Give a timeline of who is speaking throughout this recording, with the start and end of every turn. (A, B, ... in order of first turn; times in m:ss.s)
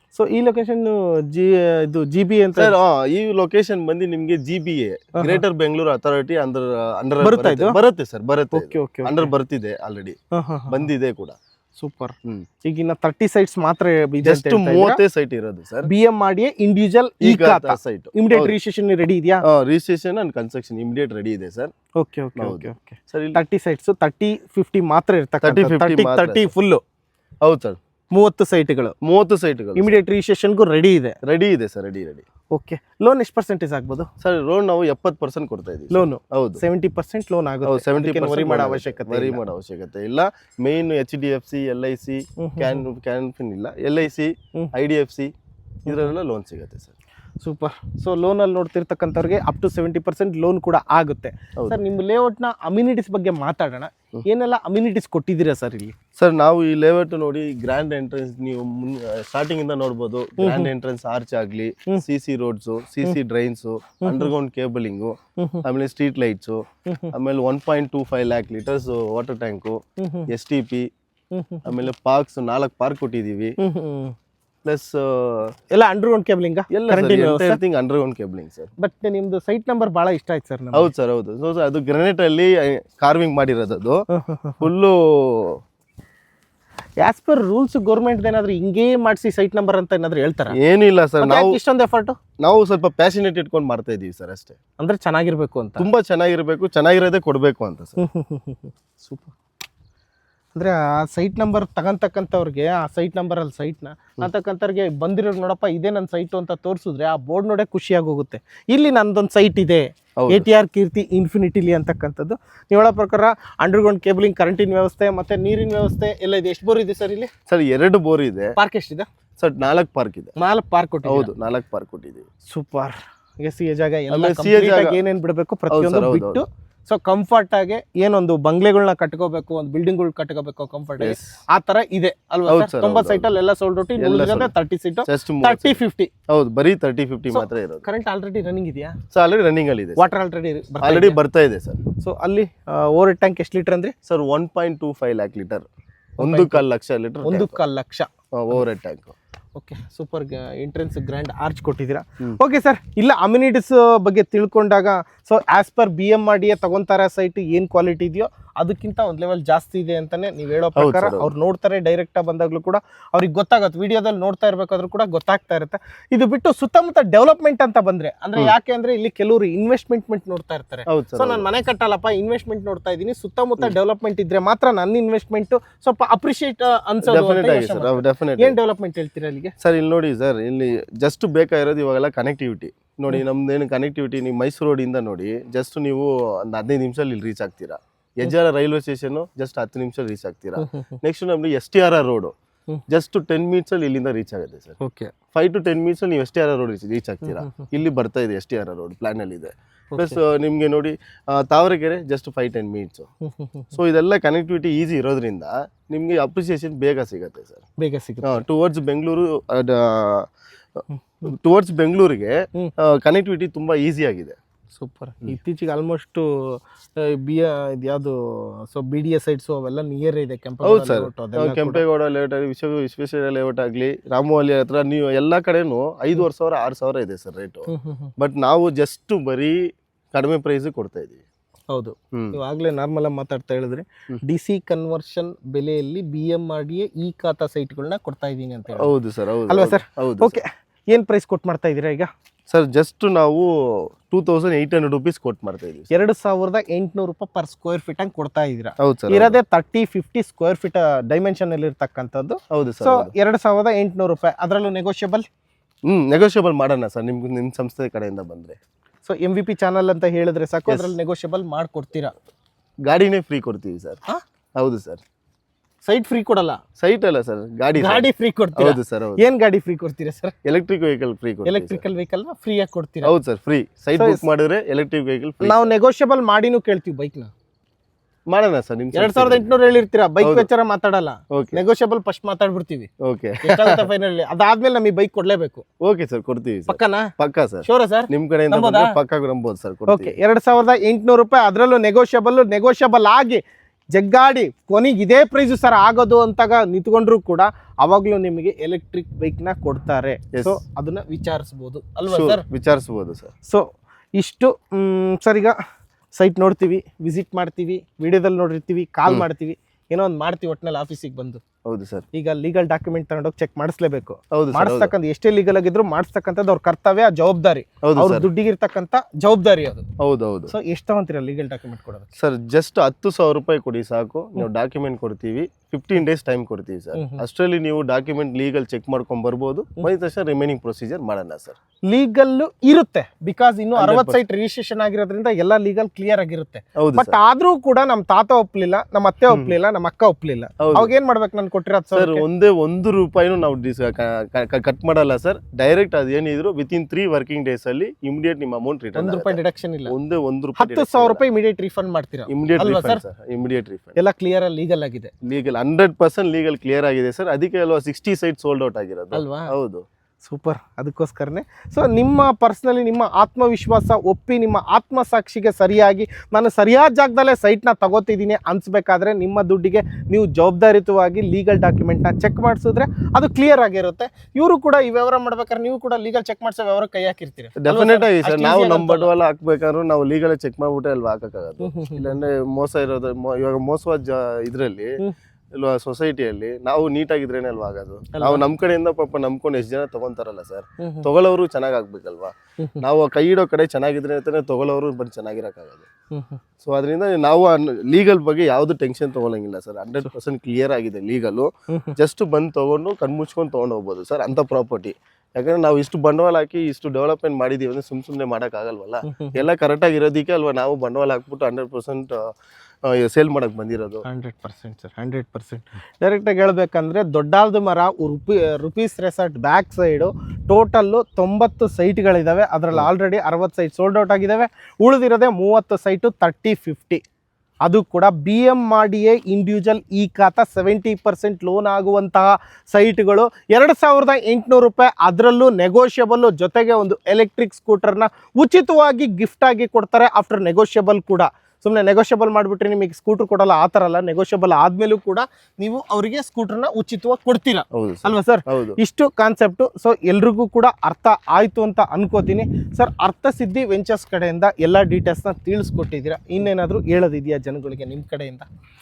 0:00.1-0:02.7 A
0:02.6-0:10.2 B
0:05.2-0:05.4 A
0:07.2-0:07.8 A
0:08.5-0:09.3 A
0:10.3-0:10.9 A
0:10.7-0:11.4 B
0:11.8-0:15.0 A
0:14.2-0:15.9 B
0:15.8-0:19.4 A
0:17.2-0:18.6 B
0:19.4-0:21.7 B
0:22.0-0:26.8 A
0:22.4-0:23.4 B
0:25.4-0:26.5 B
0:27.4-0:27.8 B
0:28.1-0:29.0 A
0:29.0-0:29.9 B
0:29.8-0:31.2 A
0:31.2-0:32.2 B
0:32.5-0:34.1 A
0:34.2-0:36.6 B
0:35.9-0:39.4 A
0:37.7-0:45.3 B
0:42.4-0:42.8 A
0:45.9-0:46.9 B
0:47.4-0:55.9 A
0:56.2-1:10.9 B
1:00.4-1:00.7 A
1:04.0-1:04.3 A
1:06.9-1:07.1 A
1:10.0-1:10.3 A
1:11.3-1:11.7 A
1:11.6-1:13.6 B
1:13.6-1:14.2 A
1:14.6-1:15.6 B
1:15.7-1:17.6 A
1:16.7-1:18.7 B
1:18.8-1:20.9 A
1:20.7-1:24.1 B
1:24.1-1:24.7 A
1:24.6-1:25.6 B
1:27.0-1:30.6 A
1:30.5-1:31.6 B
1:31.2-1:32.2 A
1:32.4-1:34.6 B
1:34.8-1:35.9 A
1:35.8-1:38.0 B
1:38.0-1:39.3 A
1:40.6-1:57.3 A
1:50.2-1:50.5 B
1:57.5-1:58.6 B
1:58.6-1:59.1 A
1:59.4-2:00.3 B
2:00.4-2:01.3 A
2:01.0-2:02.3 B
2:02.5-2:16.1 A
2:04.1-2:05.0 B
2:05.7-2:06.4 B
2:11.0-2:11.3 B
2:12.5-2:13.3 B
2:14.0-2:14.5 B
2:15.1-2:17.9 B
2:17.3-2:19.0 A
2:19.1-2:20.1 B
2:20.0-2:21.2 A
2:20.8-2:21.8 B
2:22.0-2:23.9 A
2:24.1-2:25.7 B
2:26.2-2:26.6 A
2:26.2-2:27.6 B
2:27.2-2:28.6 A
2:28.4-2:29.2 B
2:29.6-2:59.5 A
2:40.8-2:41.3 B
2:50.9-2:51.5 B
2:57.0-2:58.6 B
2:59.6-3:12.3 B
3:10.6-3:11.0 A
3:12.9-3:14.8 B
3:14.8-3:15.1 A
3:15.3-3:23.1 B
3:17.2-3:17.5 A
3:19.9-3:20.2 A
3:23.2-3:23.8 A
3:23.7-3:27.7 B
3:27.8-3:28.4 A
3:28.2-3:30.3 B
3:31.2-3:34.4 B
3:34.8-3:41.8 A
3:40.6-3:49.6 B
3:47.7-3:48.1 A
3:50.1-3:51.2 B
3:51.7-3:59.0 A
3:52.1-3:52.4 B
3:58.8-4:00.4 B
3:59.5-4:02.1 A
4:02.5-4:05.9 B
4:05.9-4:15.3 A
4:08.8-4:09.4 B
4:12.5-4:13.1 B
4:15.9-4:18.6 B
4:19.0-4:22.2 A
4:20.7-4:20.9 B
4:22.9-4:24.0 B
4:24.6-4:25.0 B
4:25.8-4:26.6 A
4:26.8-4:29.2 B
4:27.8-4:30.3 A
4:30.4-4:31.8 B
4:31.4-4:33.1 A
4:33.0-4:35.7 B
4:34.0-4:34.2 A
4:35.4-4:37.3 A
4:38.3-4:39.5 B
4:38.9-4:42.9 A
4:40.2-4:40.5 B
4:41.3-4:41.6 B
4:43.0-4:43.8 B
4:43.4-4:45.6 A
4:45.8-4:50.2 B
4:46.7-4:47.1 A
4:47.6-4:49.0 A
4:49.9-4:53.4 A
4:53.9-5:02.4 A
5:00.3-5:00.6 B
5:02.1-5:03.3 B
5:03.5-5:05.6 A
5:06.2-5:11.4 A
5:11.7-5:12.0 B
5:12.1-5:19.8 A
5:14.3-5:14.9 B
5:17.8-5:18.3 B
5:20.0-5:20.5 B
5:20.5-5:22.1 A
5:22.2-5:31.6 B
5:27.0-5:27.2 A
5:31.9-5:42.2 A
5:33.8-5:34.2 B
5:36.8-5:37.2 B
5:40.6-5:40.9 B
5:41.9-5:51.2 B
5:49.0-5:49.9 A
5:50.6-5:53.0 A
5:52.3-5:54.0 B
5:54.0-5:55.1 A
5:55.2-5:59.8 B
5:59.1-5:59.5 A
6:00.2-6:19.1 A
6:17.6-6:25.0 B
6:21.6-6:22.1 A
6:25.6-6:35.9 B
6:28.2-6:28.4 A
6:30.8-6:31.1 A
6:36.1-6:36.4 A
6:36.6-6:52.2 B
6:49.0-6:49.4 A
6:52.9-6:54.0 B
6:54.0-7:07.0 A
7:07.6-7:38.5 A
7:27.7-7:28.8 B